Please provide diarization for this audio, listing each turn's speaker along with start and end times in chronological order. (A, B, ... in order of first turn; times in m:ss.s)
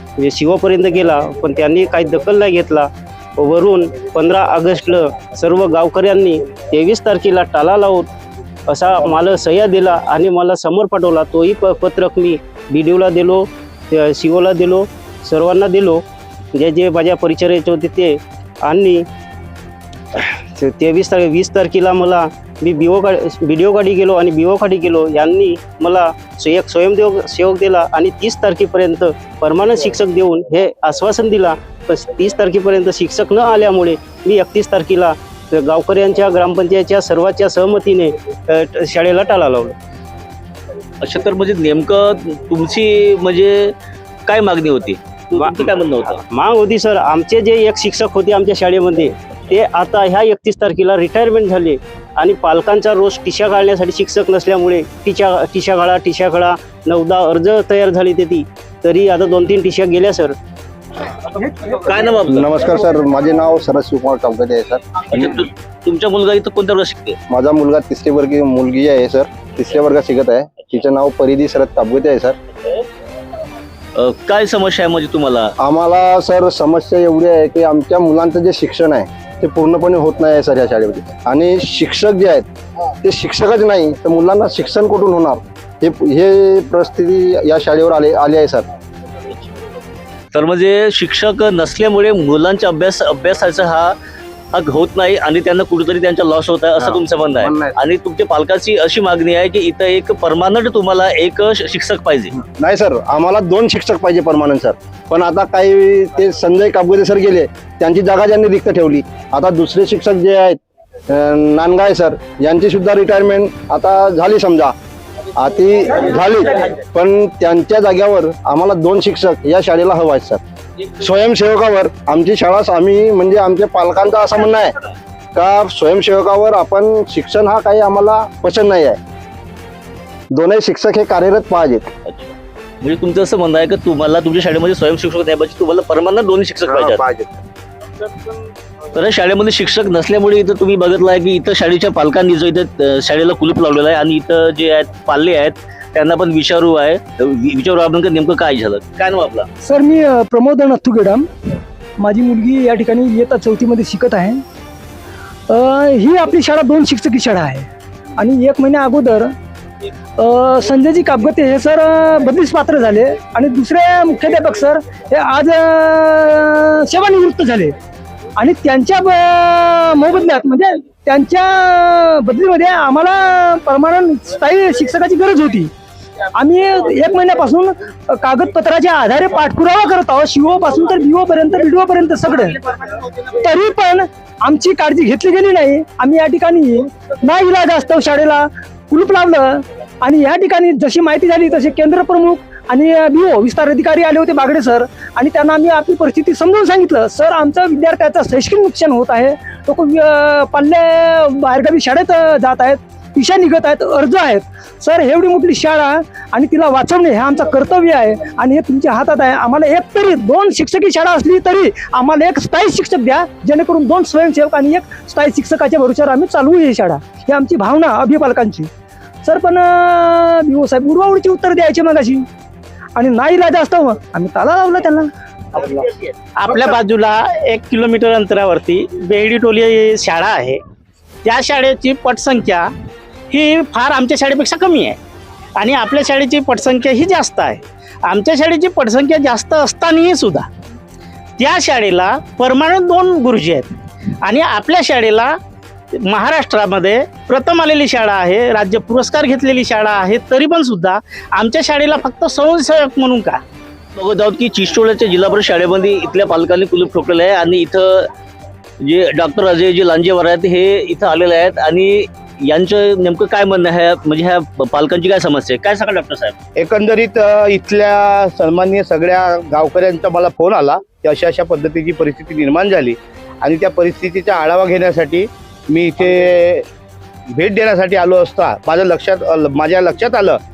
0:00.2-0:08.1 A
0:08.7-0:19.0 A
0:20.2-0:39.8 A
0:41.0-0:46.2 B
0:45.3-0:45.7 A
0:46.3-1:00.4 A
1:01.6-1:02.5 B
1:02.2-1:05.4 C
1:05.1-1:07.2 B
1:07.3-1:12.4 C
1:14.0-1:15.5 B
1:15.6-1:22.4 C
1:23.0-1:28.7 C
1:30.3-1:33.9 B
1:34.5-1:42.3 B
1:36.8-1:37.8 C
1:42.3-1:54.7 C
1:55.3-2:00.4 C
2:00.9-2:04.7 C
2:05.3-2:09.0 C
2:10.3-2:11.9 C
2:12.0-2:17.0 B
2:16.7-2:17.4 C
2:18.9-2:29.5 B
2:29.6-2:31.3 D
2:32.0-2:34.4 D
2:35.5-2:39.3 D
2:40.2-2:47.7 D
2:48.4-2:55.7 D
2:56.3-3:02.6 D
3:03.3-3:38.7 D
3:39.2-3:42.3 D
3:43.0-3:45.1 D
3:45.6-3:45.8 A
3:46.4-3:50.6 A
3:51.2-3:52.7 A
3:53.3-3:55.0 A
3:55.6-4:00.5 A
4:01.4-4:03.7 A
4:04.2-4:05.4 A
4:05.9-4:13.4 A
4:13.9-4:18.1 B
4:18.8-4:26.3 B
4:26.6-4:36.6 E
4:37.3-4:40.4 E